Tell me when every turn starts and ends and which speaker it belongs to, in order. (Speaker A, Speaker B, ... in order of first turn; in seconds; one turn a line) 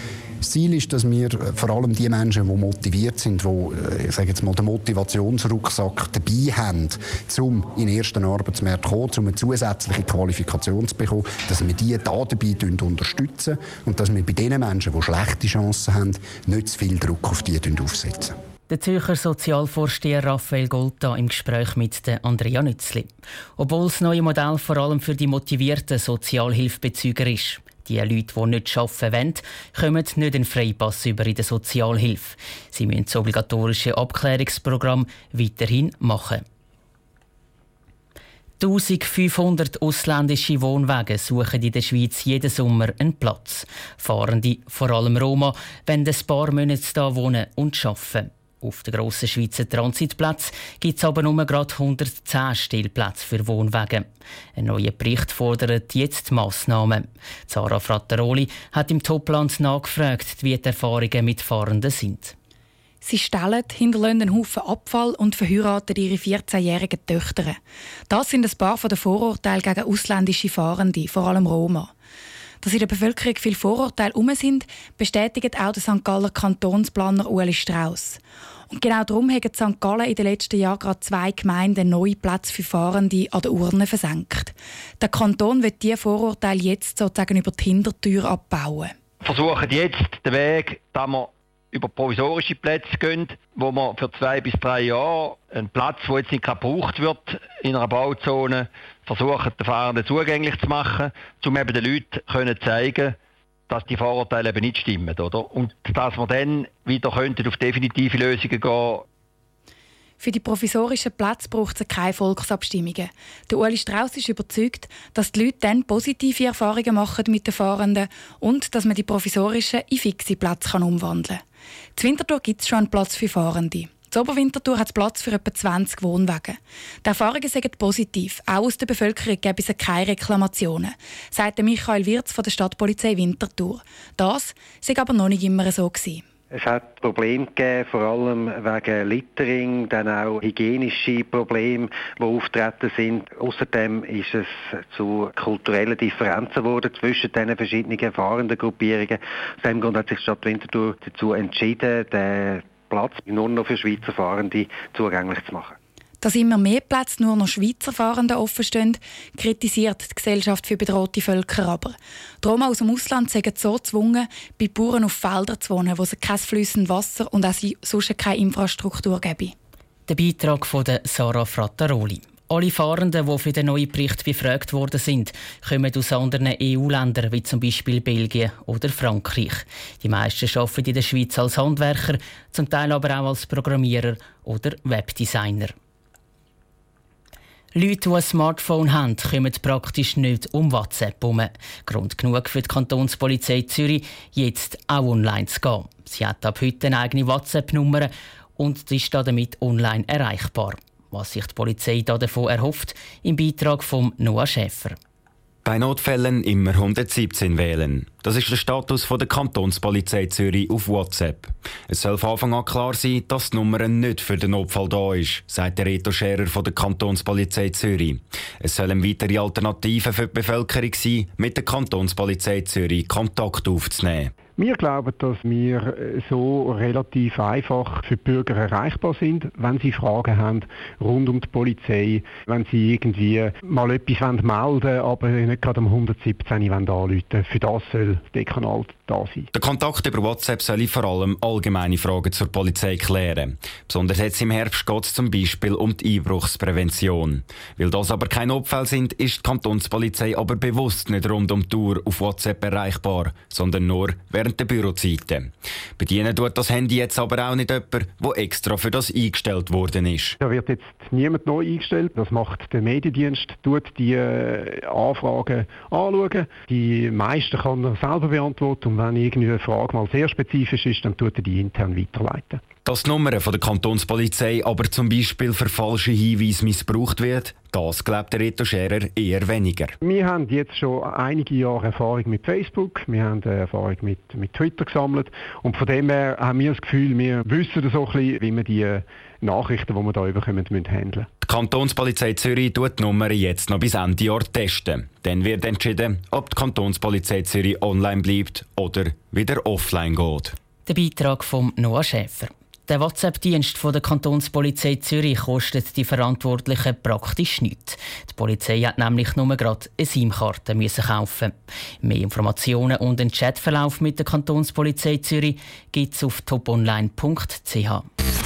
Speaker A: 0.4-18.3
Speaker B: 18.7-36.4
Speaker B: 38.6-62.3
Speaker C: 63.0-71.9
Speaker C: 72.6-88.9
Speaker D: 89.2-103.2
Speaker D: 103.7-109.0
Speaker C: 110.2-121.4
Speaker C: 121.9-136.2
Speaker E: 136.5-155.8
Speaker C: 156.2-169.5
Speaker B: 170.1-185.7
Speaker B: 187.7-205.0
Speaker F: 205.6-224.3
Speaker G: 224.6-239.5
Speaker F: 239.5-260.4
Speaker G: 260.4-272.6
Speaker F: 272.9-279.9
Speaker G: 280.0-291.3
Speaker F: 291.4-300.6
Speaker B: 300.9-318.1